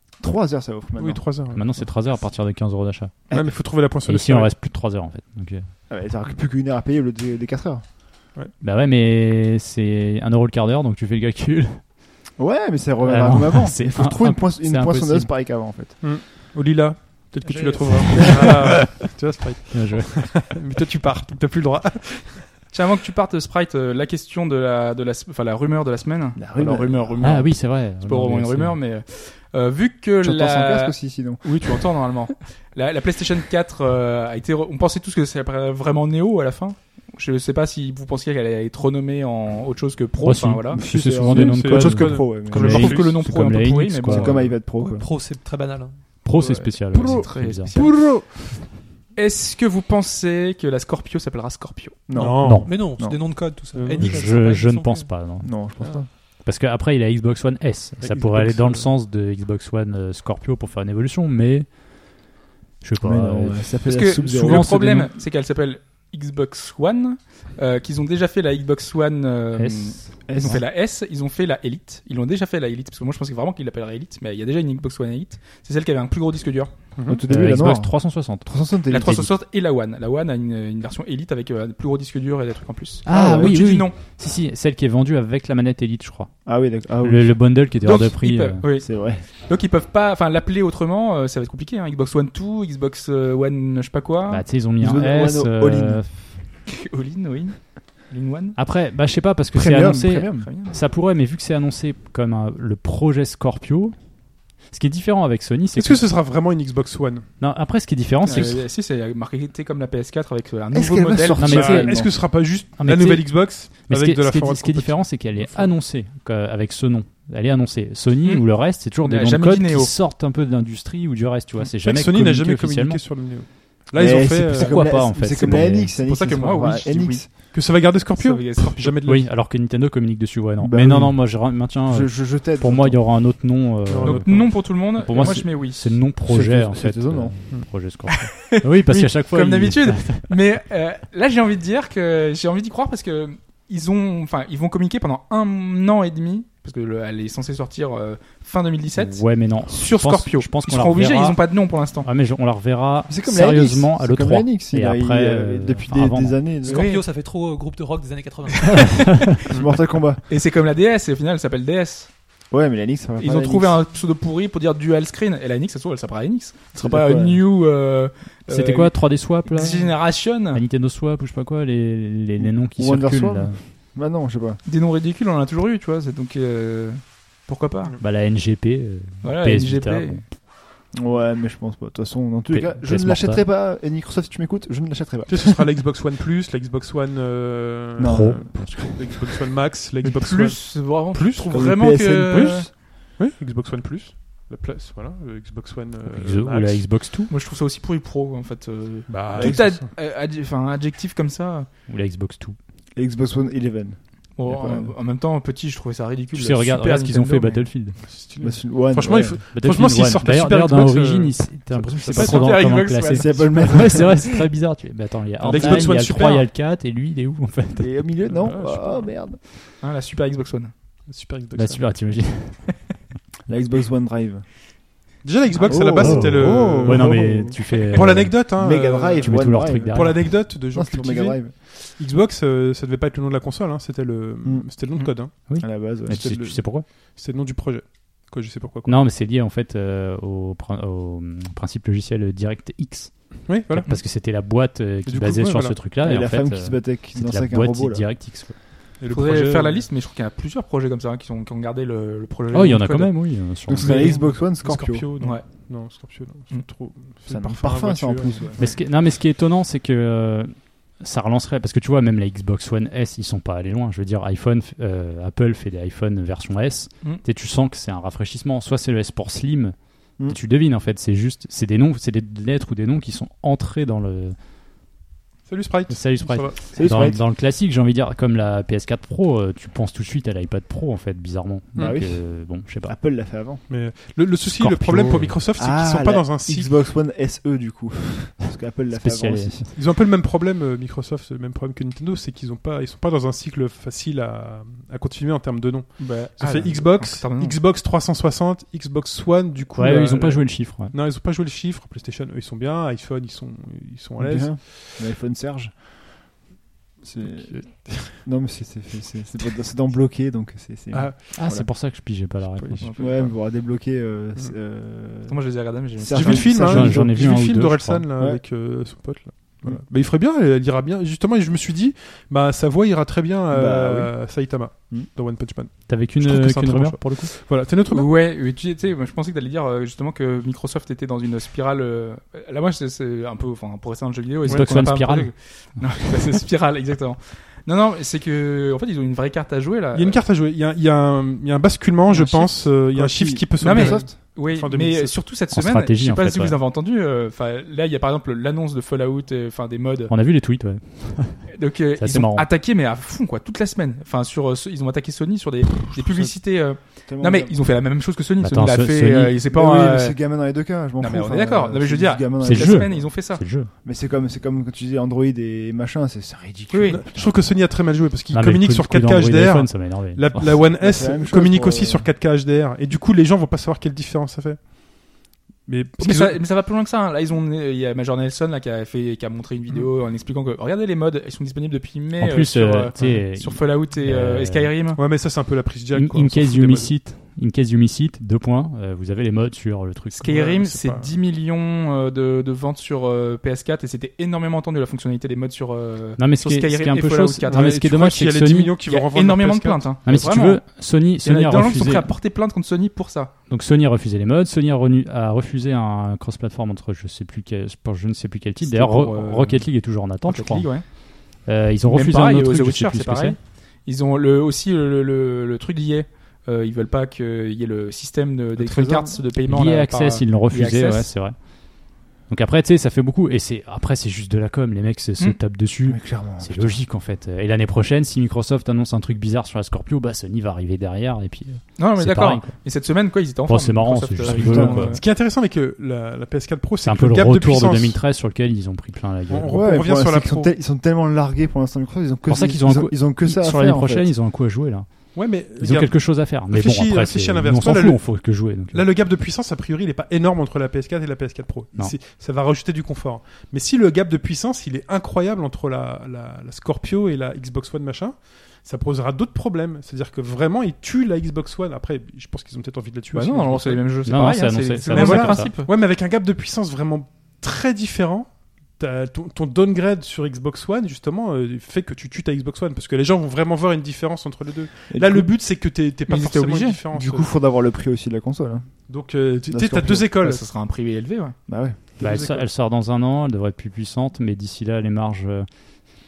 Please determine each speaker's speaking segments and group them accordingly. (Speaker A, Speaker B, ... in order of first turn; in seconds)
Speaker A: 0.2-1.2, 5.9-7.9, 12.4-16.0, 26.4-27.4, 30.2-31.4, 40.7-42.8, 44.1-45.0, 52.1-53.5, 55.4-56.1, 63.0-64.8, 70.3-70.6, 77.1-79.3, 83.1-83.6, 86.5-87.4, 88.7-89.2, 94.8-96.0, 99.5-100.5, 110.7-112.1, 124.0-127.3, 130.6-133.0, 136.2-137.4, 153.1-156.9, 159.5-160.2, 162.5-163.8, 166.8-167.4, 172.4-174.6, 180.9-185.6, 188.0-188.5, 191.5-192.7, 203.0-204.9, 208.4-209.4, 213.0-214.4, 215.4-216.0, 217.8-219.4, 223.5-224.5, 225.6-231.5, 235.5-236.6, 246.0-248.1, 253.7-255.1, 257.3-258.7, 276.7-277.2, 281.8-283.6, 285.6-289.6, 304.2-305.8, 307.0-311.7, 313.0-315.4, 316.0-317.4, 323.5-324.1, 342.1-344.1, 356.0-356.3, 357.1-357.6, 359.5-363.1, 363.8-367.4, 370.7-372.1, 418.6-419.2, 425.9-426.8, 434.2-434.9, 439.5-444.1, 474.9-475.3, 476.9-478.7, 479.5-480.1, 481.5-481.8
Speaker B: 1.0-1.9, 3.3-4.5, 16.0-22.5, 41.2-43.2, 47.0-48.7, 52.1-53.0, 53.7-54.2, 58.0-58.9, 77.0-77.2, 105.7-107.3, 111.4-115.7, 121.7-124.8, 127.5-129.3, 133.9-134.4, 185.3-191.6, 192.3-196.9, 199.1-199.9, 208.0-212.6, 215.4-216.5, 218.4-219.1, 221.1-221.9, 225.2-235.3, 236.1-239.1, 243.5-244.0, 245.1-245.8, 249.0-249.8, 253.9-258.7, 275.5-276.6, 283.7-286.7, 289.8-304.8, 307.2-308.2, 310.9-311.4, 312.5-313.3, 316.1-328.1, 339.9-345.2, 366.9-374.6, 375.7-376.4, 385.0-386.9, 390.3-391.2, 397.5-399.9, 434.4-438.0, 439.3-440.5, 445.1-463.8, 464.9-477.3, 478.9-480.4, 482.0-482.5
Speaker C: 1.5-3.2, 4.1-5.7, 8.6-11.8, 13.1-15.3, 19.7-20.2, 27.2-28.8, 40.2-44.5, 46.2-47.8, 52.4-52.9, 54.0-55.5, 56.4-61.7, 62.8-65.1, 69.6-70.5, 77.3-78.5, 83.0-86.3, 87.0-88.6, 94.3-96.1, 98.6-104.0, 104.7-106.0, 107.4-108.6, 111.4-112.2, 112.8-123.0, 124.5-125.9, 129.1-140.3, 148.9-151.4, 152.0-156.4, 158.8-159.3, 168.5-173.6, 178.0-180.3, 182.5-183.4, 188.0-189.3, 196.1-197.3, 201.9-202.6, 206.3-208.0, 209.1-217.9, 221.6-222.7, 226.0-228.7, 229.2-230.3, 235.5-236.8, 238.9-248.6, 252.5-254.2, 258.6-274.4, 275.9-282.9, 284.6-285.4, 288.9-289.7, 299.8-300.9, 311.3-312.9, 316.3-318.1, 325.9-327.3, 334.5-336.4, 345.5-346.6, 350.1-352.5, 358.4-359.4, 362.4-363.7, 368.3-370.6, 382.2-384.7, 385.9-390.5, 396.2-398.7, 400.1-402.1, 403.5-410.7, 411.4-413.4, 419.5-421.4, 422.3-432.5, 433.5-435.0, 436.8-439.7, 442.3-445.0, 445.6-448.9, 464.1-465.5, 482.0-485.5
Speaker D: 17.5-18.8, 22.7-40.8, 42.5-44.5, 46.3-48.1, 49.1-52.0, 63.9-76.7, 78.9-84.0, 87.8-94.5, 96.7-98.6, 100.4-100.8, 108.2-111.5, 118.2-119.9, 125.7-127.5, 128.2-129.0, 134.0-135.9, 138.1-152.1, 156.7-157.1, 160.3-162.1, 163.2-170.6, 174.7-177.9, 179.2-180.2, 190.0-192.7, 197.3-201.7, 204.4-207.7, 212.1-214.3, 219.8-220.7, 225.5-225.8, 249.1-253.1, 253.8-254.2, 255.2-255.7, 296.0-297.6, 312.8-313.2, 315.3-316.5, 327.9-340.2, 343.6-350.1, 351.5-360.2, 361.0-363.4, 366.7-367.0, 376.0-385.0, 390.2-397.8, 398.9-400.6, 401.2-403.3, 408.6-409.7, 410.2-410.8, 411.9-421.1, 431.8-435.0, 463.1-465.7, 476.1-476.8, 480.2-481.4
Speaker E: 44.7-46.0, 52.6-55.1, 156.6-159.1